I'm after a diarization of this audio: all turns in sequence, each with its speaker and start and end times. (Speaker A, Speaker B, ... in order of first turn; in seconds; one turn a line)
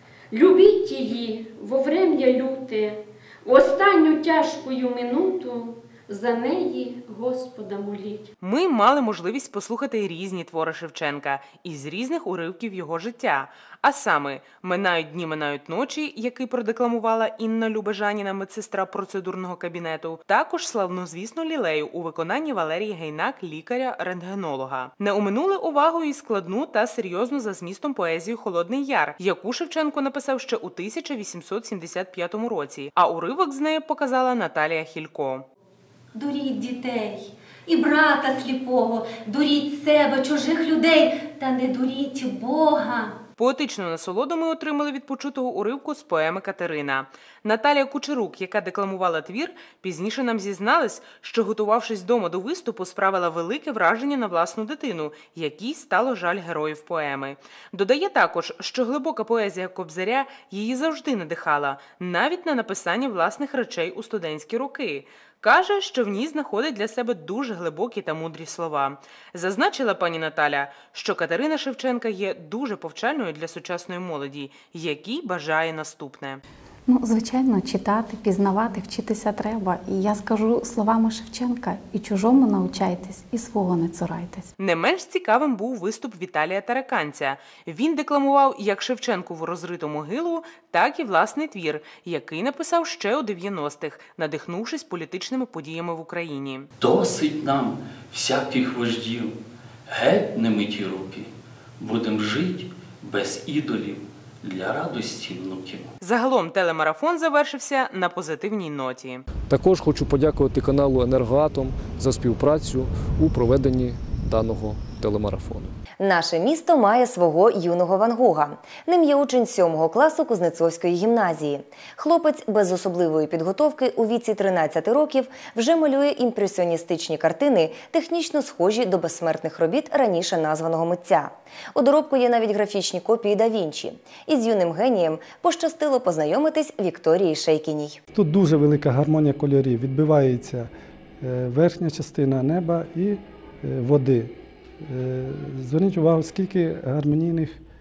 Speaker A: 0.3-8.3
Speaker B: 8.4-35.5
Speaker C: 36.1-43.1
Speaker B: 43.4-76.4
Speaker D: 76.9-84.5
Speaker B: 84.6-96.7
Speaker E: 96.8-99.3
Speaker E: 99.9-105.9
Speaker B: 106.0-109.2
Speaker F: 109.5-115.7
Speaker G: 116.0-138.0
Speaker H: 138.1-147.6